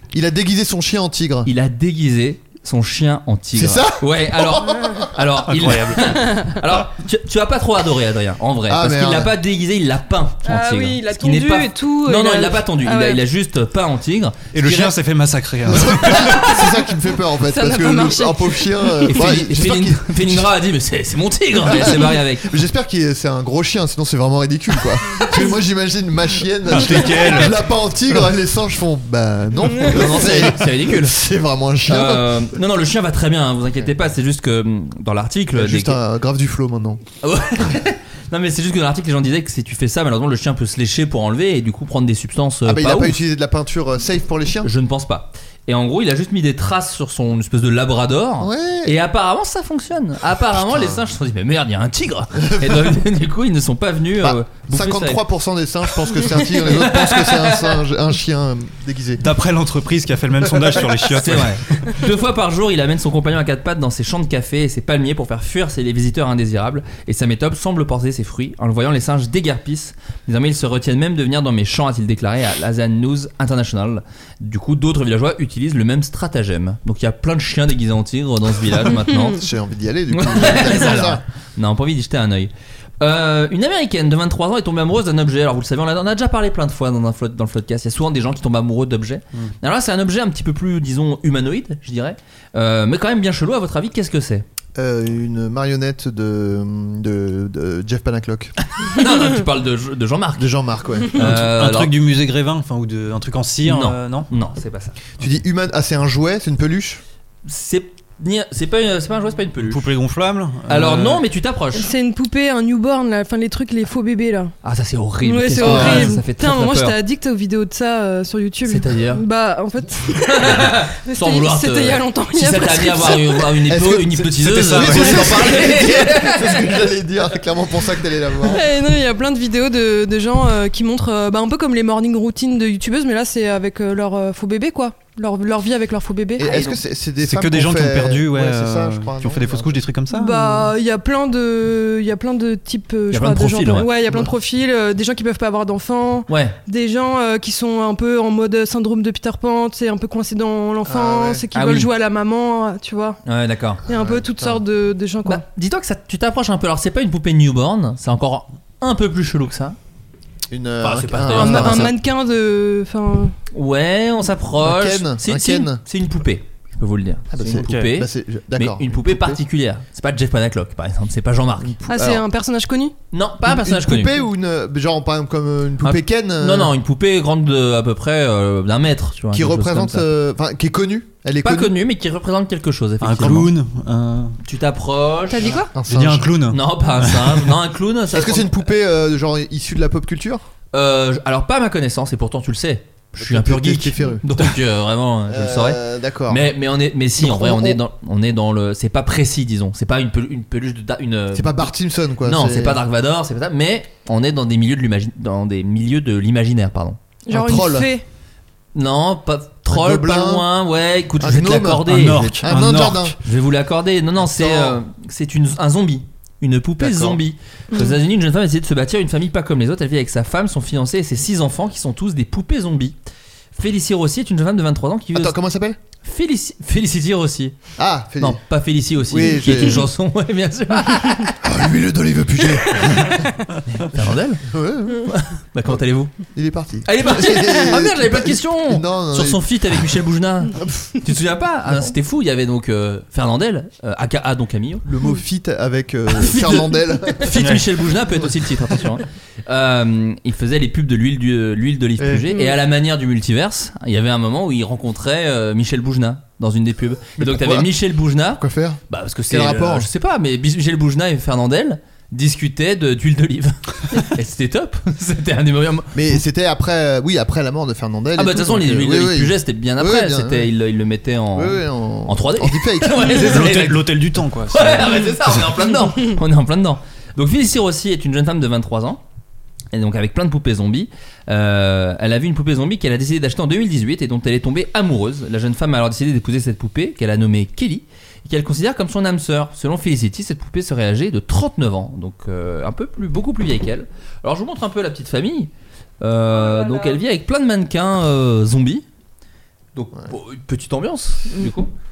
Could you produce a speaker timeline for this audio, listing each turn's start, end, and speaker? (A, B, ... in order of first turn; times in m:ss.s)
0:00.1-0:01.5 A
0:01.4-0:15.0 B
0:03.5-0:05.1 A
0:05.5-0:06.5 C
0:08.7-0:09.3 A
0:10.4-0:13.2 D
0:14.5-0:16.4 C
0:15.7-0:20.5 A
0:15.8-0:16.4 B
0:17.4-0:19.2 D
0:19.1-0:22.5 B
0:21.6-0:32.5 A
0:26.7-0:27.7 C
0:29.8-0:31.2 B
0:31.9-0:36.0 B
0:35.5-0:37.0 A
0:37.2-0:43.2 B
0:42.6-0:44.7 A
0:44.6-0:55.2 B
0:48.4-0:49.0 A
0:50.5-0:51.0 A
0:52.4-0:52.9 A
0:54.2-0:59.2 A
0:56.5-0:57.8 B
0:59.2-1:02.0 C
1:01.1-1:19.4 B
1:19.2-1:21.2 A
1:20.1-1:34.4 B
1:34.8-1:38.5 A
1:38.7-1:40.5 B
1:40.4-1:41.2 A
1:41.1-1:41.9 B
1:41.2-1:44.3 C
1:43.6-1:45.0 B
1:45.2-1:47.0 A
1:47.4-1:49.9 B
1:49.6-1:51.2 C
1:50.7-1:51.9 B
1:51.7-1:54.5 D
1:54.6-1:57.0 B
1:55.2-2:03.5 D
1:55.6-1:56.2 A
1:58.6-1:59.2 B
2:00.3-2:06.8 B
2:03.7-2:08.6 A
2:04.3-2:05.6 C
2:08.4-2:16.7 D
2:16.4-2:19.8 A
2:17.2-2:20.7 C
2:20.1-2:33.2 D
2:23.1-2:23.9 B
2:24.0-2:24.3 A
2:26.3-2:26.6 B
2:30.8-2:31.4 A
2:31.5-2:31.9 B
2:33.2-2:33.8 B
2:33.8-2:34.6 A
2:33.8-2:35.4 D
2:35.2-2:39.8 B
2:40.5-2:41.9 A
2:40.8-2:41.9 B
2:41.3-2:43.3 D
2:43.5-2:51.8 B
2:44.6-2:45.8 A
2:47.3-2:49.4 A
2:47.5-2:47.8 C
2:51.6-2:52.2 A
2:51.9-2:52.9 D
2:53.1-2:54.1 B
2:53.4-2:56.7 A
2:55.8-3:00.1 B
2:59.3-3:01.7 A
3:01.4-3:03.5 B
3:03.0-3:04.4 C
3:04.4-3:05.6 B
3:05.3-3:05.7 D
3:05.4-3:06.4 A
3:05.9-3:07.5 C
3:06.5-3:08.6 B
3:08.1-3:10.4 A
3:10.7-3:21.7 B
3:13.2-3:14.3 A
3:15.3-3:16.5 A
3:17.2-3:17.8 A
3:21.3-3:22.8 A
3:22.2-3:27.0 B
3:27.3-3:28.0 D
3:27.3-3:27.9 A
3:28.7-3:32.6 B
3:29.7-3:30.5 A
3:31.2-3:33.2 A
3:31.9-3:33.1 C
3:33.1-3:43.0 B
3:34.2-3:34.8 A
3:36.8-3:37.2 A
3:43.6-3:45.4 B
3:45.1-3:45.8 A
3:46.0-3:47.6 B
3:47.8-3:48.4 A
3:48.2-3:51.4 B
3:49.1-3:49.9 A
3:51.4-3:53.2 A
3:52.7-3:54.4 B
3:54.0-3:55.1 A
3:55.0-3:56.1 B
3:56.3-3:59.4 A
3:56.8-4:04.8 B
4:04.8-4:07.4 A
4:06.1-4:26.2 B
4:07.3-4:07.6 C
4:17.2-4:17.7 A
4:18.4-4:19.9 A
4:25.9-4:30.5 A
4:28.2-4:39.0 B
4:31.3-4:33.2 A
4:33.1-4:35.6 C
4:39.7-4:58.8 B
4:56.3-4:57.0 D
4:59.7-5:01.7 B